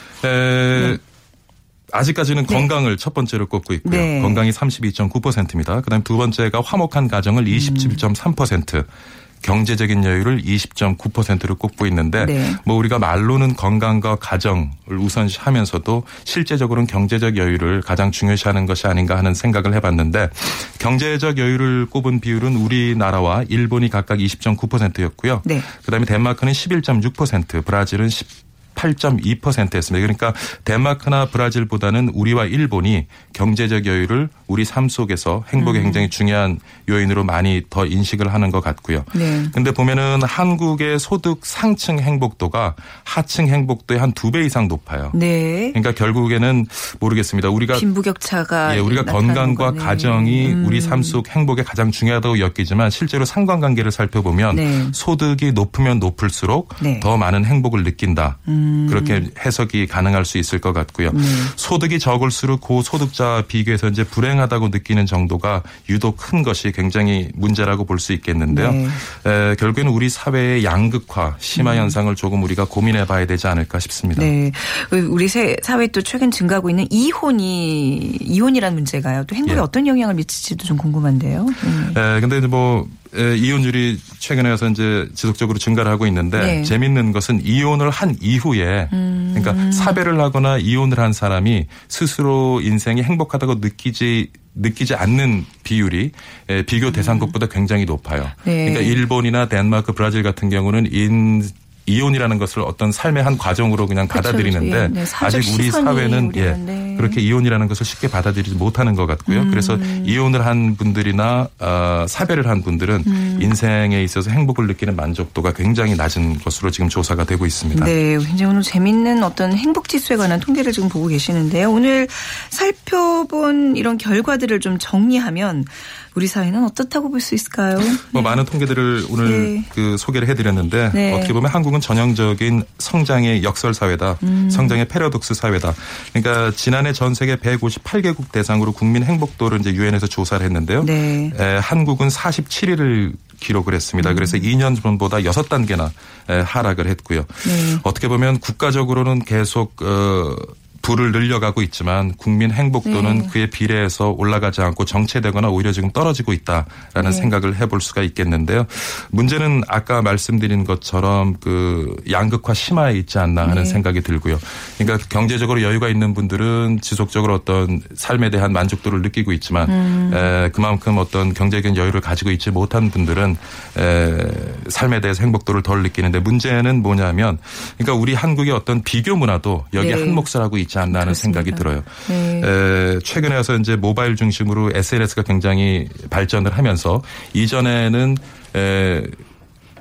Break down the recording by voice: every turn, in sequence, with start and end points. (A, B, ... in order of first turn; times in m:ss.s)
0:00.2-0:01.0 A
0:01.9-0:08.9 A
0:03.8-0:04.4 B
0:07.5-0:08.0 B
0:09.4-0:45.2 A
0:12.2-0:12.6 B
0:35.6-0:36.1 B
0:39.1-0:39.5 B
0:45.1-0:45.8 B
0:45.7-0:47.8 A
0:47.7-0:51.2 B
0:48.6-1:14.3 A
0:54.5-0:55.0 B
0:56.8-0:57.1 B
0:58.5-0:59.3 B
1:01.1-1:01.5 B
1:08.5-1:09.0 B
1:11.6-1:12.0 B
1:14.1-1:22.0 B
1:21.9-1:57.9 A
1:26.4-1:26.7 B
1:28.9-1:30.0 B
1:36.9-1:37.3 B
1:38.4-1:39.0 B
1:44.1-1:47.2 B
1:49.3-1:50.2 B
1:53.0-1:53.5 B
1:57.7-2:08.4 B
2:08.0-3:09.2 A
2:09.2-2:09.7 B
2:10.9-2:11.3 B
2:14.2-2:14.8 B
2:20.8-2:21.3 B
2:24.0-2:24.5 B
2:27.4-2:27.8 B
2:32.8-2:33.3 B
2:37.0-2:37.3 B
2:43.4-2:43.8 B
2:49.7-2:50.3 B
2:59.7-3:00.3 B
3:00.8-3:02.5 B